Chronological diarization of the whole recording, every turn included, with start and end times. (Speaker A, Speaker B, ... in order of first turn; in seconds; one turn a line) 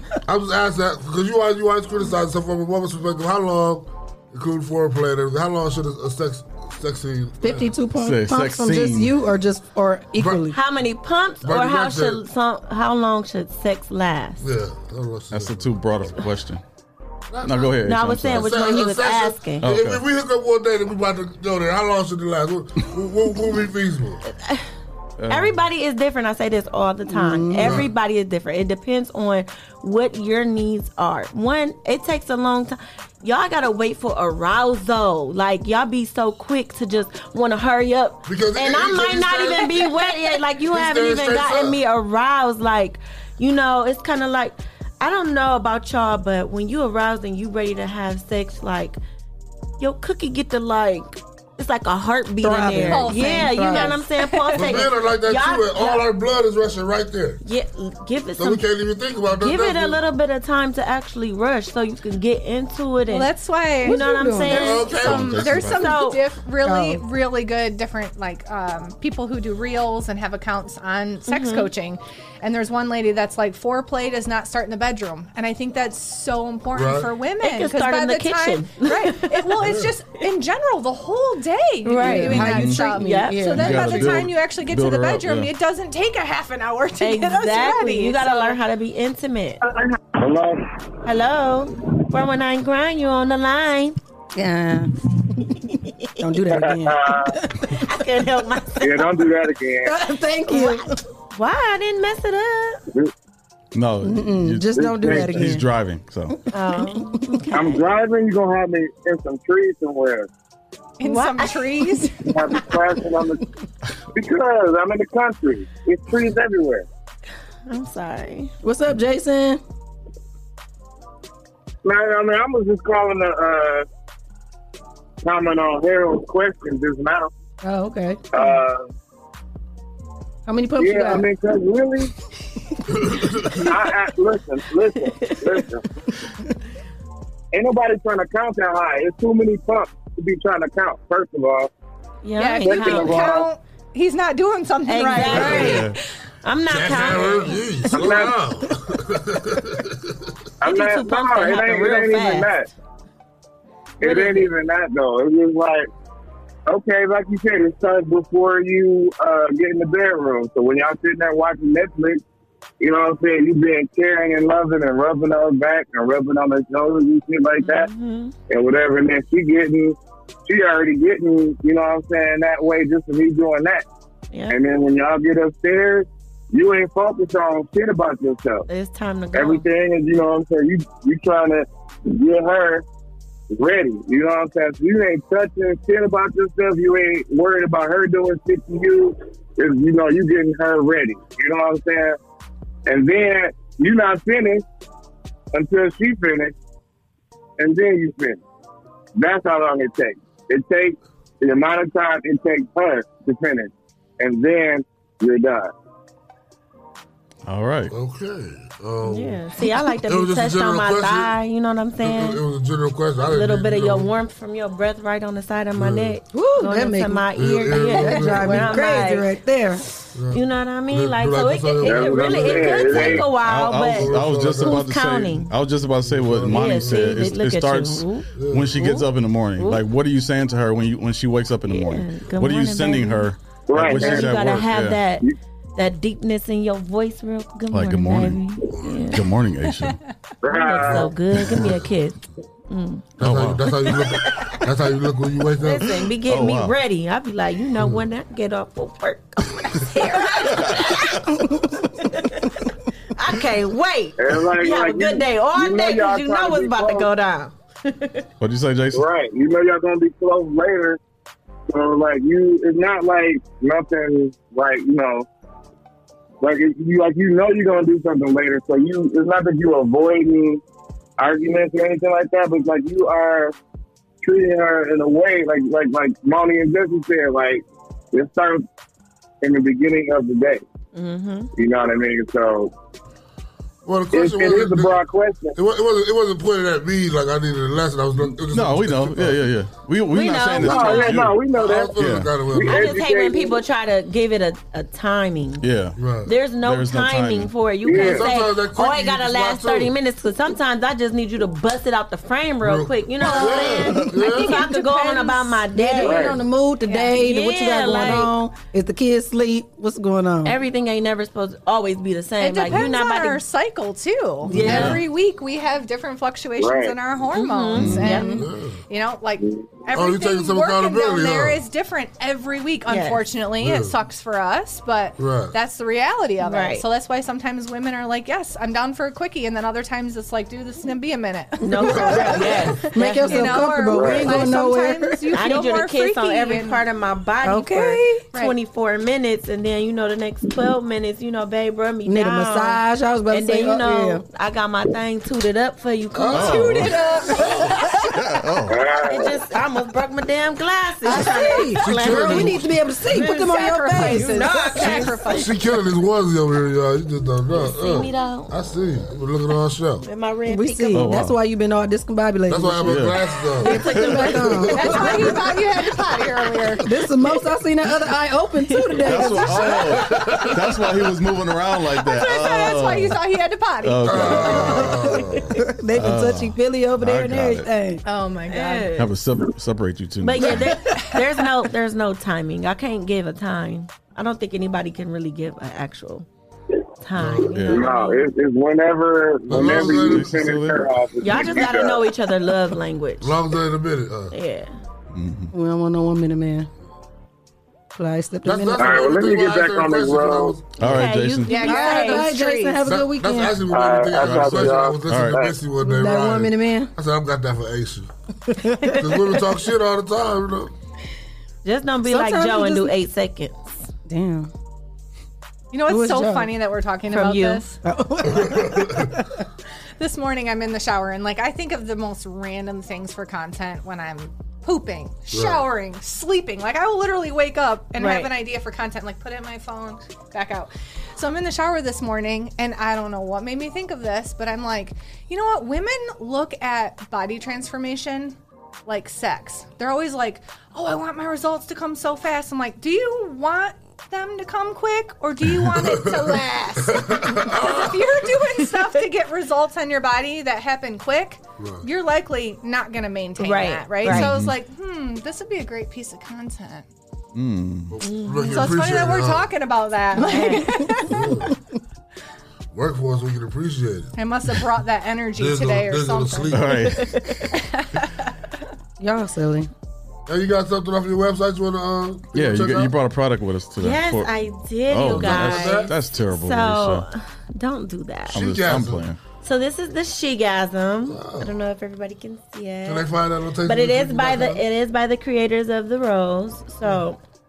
Speaker A: 0.3-7.8
Speaker B: 7.4-10.6
Speaker C: 8.0-9.2
Speaker A: 10.2-10.4
Speaker D: 10.5-14.5
Speaker A: 11.4-12.2
Speaker A: 14.4-15.8
Speaker C: 15.3-16.6
Speaker A: 17.3-24.2
Speaker C: 17.4-18.5
Speaker D: 17.8-19.6
Speaker C: 19.6-20.0
Speaker D: 24.3-24.7
Speaker C: 25.2-25.6
Speaker D: 25.3-49.0
Speaker B: 27.1-27.8
Speaker A: 27.6-27.9
Speaker A: 38.3-40.0
Speaker A: 40.6-41.8
Speaker D: 49.8-56.0
Speaker B: 52.4-54.0
Speaker E: 52.9-54.8
Speaker A: 54.6-57.4
Speaker D: 57.4-58.7
Speaker A: 58.4-60.0
Speaker D: 59.3-63.3
Speaker E: 63.1-64.0
Speaker B: 63.8-64.8
Speaker D: 63.8-66.2
Speaker A: 64.5-65.8
Speaker E: 64.6-88.6
Speaker C: 64.9-65.9
Speaker B: 66.6-67.0
Speaker D: 71.3-71.7
Speaker A: 76.7-77.1
Speaker D: 77.4-79.5
Speaker A: 79.6-80.0
Speaker D: 81.8-83.6
Speaker B: 81.9-84.1
Speaker C: 82.4-82.8
Speaker C: 83.6-85.5
Speaker D: 87.0-89.6
Speaker F: 89.7-90.6
Speaker D: 91.0-94.0
Speaker B: 94.4-95.6
Speaker B: 96.2-97.9
Speaker F: 96.5-97.3
Speaker D: 97.8-99.2
Speaker F: 98.8-99.9
Speaker B: 99.8-101.0
Speaker D: 100.5-102.8
Speaker C: 103.7-106.4
Speaker B: 104.0-105.7
Speaker D: 106.5-107.8
Speaker B: 107.1-107.4
Speaker F: 107.5-110.3
Speaker E: 111.0-112.2
Speaker D: 111.0-112.0
Speaker F: 112.3-113.4
Speaker F: 114.2-116.8
Speaker D: 117.7-118.5
Speaker B: 118.6-119.6
Speaker F: 121.8-123.8
Speaker F: 125.2-127.3
Speaker B: 127.6-128.4
Speaker F: 128.3-128.9
Speaker B: 130.5-131.3
Speaker F: 130.8-132.1
Speaker A: 133.0-133.6
Speaker F: 133.7-135.8
Speaker D: 135.2-135.6
Speaker F: 137.5-141.7
Speaker D: 142.2-143.4
Speaker E: 142.4-145.9
Speaker B: 142.6-143.0
Speaker F: 142.9-143.3
Speaker D: 144.9-145.9
Speaker C: 145.3-146.0
Speaker A: 145.3-145.7
Speaker D: 146.4-148.1
Speaker A: 146.7-150.0
Speaker F: 147.9-148.3
Speaker F: 150.6-152.7
Speaker D: 150.7-152.5
Speaker D: 154.0-154.5
Speaker F: 154.0-155.9
Speaker F: 156.7-162.2
Speaker F: 162.8-167.9
Speaker D: 167.6-168.3
Speaker F: 168.5-173.8
Speaker F: 174.5-178.7
Speaker D: 178.7-179.7
Speaker F: 179.3-182.8
Speaker F: 183.5-192.2
Speaker F: 192.9-194.6
Speaker F: 195.5-196.5
Speaker F: 197.6-198.4
Speaker F: 199.2-205.7
Speaker C: 207.5-207.9
Speaker A: 207.9-209.4
Speaker D: 209.0-212.4
Speaker A: 210.0-211.3
Speaker A: 212.0-214.1
Speaker D: 213.3-219.3
Speaker A: 215.8-216.2
Speaker B: 216.3-217.2
Speaker A: 217.3-219.0
Speaker B: 217.9-219.8
Speaker A: 220.2-224.9
Speaker D: 220.3-225.5
Speaker F: 221.8-223.2
Speaker C: 223.4-235.1
Speaker A: 226.0-227.2
Speaker D: 226.5-229.0
Speaker A: 228.4-229.0
Speaker D: 231.7-239.2
Speaker F: 233.7-234.3
Speaker C: 237.7-238.5
Speaker A: 238.7-239.1
Speaker C: 239.1-240.0
Speaker F: 240.4-241.1
Speaker D: 240.5-242.2
Speaker A: 240.8-241.9
Speaker D: 242.7-243.1
Speaker A: 243.2-245.9
Speaker C: 243.2-243.7
Speaker D: 243.9-244.6
Speaker D: 245.6-251.2
Speaker C: 246.3-246.8
Speaker A: 247.8-248.0
Speaker C: 250.5-251.2
Speaker D: 252.0-252.6
Speaker D: 253.2-258.3
Speaker F: 254.2-257.1
Speaker C: 258.4-259.1
Speaker F: 259.0-261.0
Speaker F: 261.7-265.2
Speaker F: 266.4-270.6
Speaker F: 271.2-273.5
Speaker F: 274.2-278.6
Speaker F: 279.4-280.6
Speaker D: 280.9-281.5
Speaker F: 281.6-282.7
Speaker A: 283.9-285.0
Speaker F: 284.1-285.5
Speaker A: 285.6-289.5
Speaker C: 288.5-291.4
Speaker D: 290.1-291.4
Speaker F: 290.6-291.9
Speaker A: 291.3-293.0
Speaker C: 292.0-292.3
Speaker F: 292.5-293.6
Speaker D: 292.6-295.6
Speaker C: 295.6-296.0
Speaker A: 296.0-296.3
Speaker D: 296.3-306.4
Speaker C: 296.6-297.5
Speaker F: 297.9-298.2
Speaker A: 297.9-299.9
Speaker A: 302.6-304.7
Speaker B: 305.1-310.6
Speaker F: 306.0-306.3
Speaker D: 306.9-308.3
Speaker D: 310.4-313.4
Speaker E: 312.4-332.5
Speaker C: 314.5-315.0
Speaker A: 314.5-315.0
Speaker D: 314.5-315.0
Speaker F: 316.6-316.9
Speaker D: 317.3-318.3
Speaker C: 317.8-318.1
Speaker B: 318.1-318.4
Speaker A: 318.3-318.8
Speaker F: 319.5-319.8
Speaker A: 319.9-321.6
Speaker D: 322.9-323.2
Speaker A: 323.6-324.0
Speaker A: 325.2-325.6
Speaker D: 326.4-326.9
Speaker D: 331.6-333.8
Speaker B: 331.8-332.1
Speaker A: 332.0-332.7
Speaker B: 332.9-335.3
Speaker E: 333.1-336.8
Speaker D: 335.3-347.7
Speaker B: 337.4-338.2
Speaker B: 342.1-344.2
Speaker A: 346.1-347.7
Speaker C: 346.3-347.0
Speaker C: 348.0-348.8
Speaker F: 348.7-349.3
Speaker D: 349.1-355.4
Speaker B: 351.1-355.1
Speaker A: 351.8-352.7
Speaker E: 353.4-355.6
Speaker A: 355.3-360.1
Speaker D: 357.6-358.5
Speaker D: 360.0-361.1
Speaker B: 360.5-363.1
Speaker C: 360.9-361.4
Speaker A: 362.5-363.7
Speaker C: 362.8-363.2
Speaker D: 363.6-365.3
Speaker B: 363.6-365.1
Speaker A: 364.7-365.6
Speaker E: 364.8-366.8
Speaker A: 366.3-366.8
Speaker B: 366.8-369.8
Speaker D: 368.8-369.1
Speaker C: 369.1-373.2
Speaker A: 369.5-370.9
Speaker E: 372.1-374.5
Speaker C: 373.8-374.8
Speaker A: 374.0-375.6
Speaker B: 374.4-378.0
Speaker C: 376.0-377.7
Speaker E: 378.1-378.9
Speaker D: 378.5-379.1
Speaker C: 378.9-380.7
Speaker D: 380.2-386.3
Speaker D: 387.0-388.3
Speaker A: 387.2-387.5
Speaker C: 387.5-387.9
Speaker F: 387.7-392.0
Speaker A: 389.5-390.5
Speaker C: 389.6-390.9
Speaker D: 391.2-393.5
Speaker A: 393.2-394.4
Speaker D: 394.3-394.7
Speaker C: 395.1-395.5
Speaker B: 395.5-396.7
Speaker B: 398.0-399.1
Speaker A: 398.4-400.7
Speaker F: 398.8-400.6
Speaker C: 400.8-401.6
Speaker D: 400.8-402.4
Speaker E: 401.5-402.8
Speaker B: 401.6-403.6
Speaker A: 402.8-408.1
Speaker F: 403.7-405.5
Speaker C: 405.1-405.4
Speaker B: 405.8-406.9
Speaker B: 408.5-409.0
Speaker A: 409.0-410.7
Speaker D: 411.6-413.8
Speaker B: 412.1-412.9
Speaker B: 414.1-414.5
Speaker E: 415.7-417.8
Speaker B: 415.9-416.5
Speaker D: 417.1-417.6
Speaker B: 417.8-419.3
Speaker A: 418.3-419.1
Speaker E: 420.0-456.9
Speaker A: 425.3-425.7
Speaker D: 428.0-428.4
Speaker A: 445.7-448.2
Speaker A: 451.6-451.9
Speaker D: 453.4-454.3
Speaker C: 454.0-454.6
Speaker C: 457.3-458.0
Speaker A: 457.9-459.5
Speaker D: 458.0-458.6
Speaker E: 458.4-461.0
Speaker B: 460.2-461.6
Speaker D: 460.2-460.8
Speaker A: 461.1-461.5
Speaker A: 462.7-464.1
Speaker E: 464.2-466.5
Speaker A: 465.4-466.8
Speaker C: 466.5-467.2
Speaker D: 466.8-467.5
Speaker E: 467.6-468.2
Speaker B: 469.0-469.7
Speaker A: 470.3-472.9
Speaker C: 472.3-474.3
Speaker D: 473.8-478.4
Speaker C: 474.9-477.1
Speaker A: 475.1-475.9
Speaker A: 478.3-479.1
Speaker C: 478.3-479.2
Speaker D: 479.4-483.1
Speaker A: 481.1-481.5
Speaker A: 482.9-484.6
Speaker D: 483.6-487.2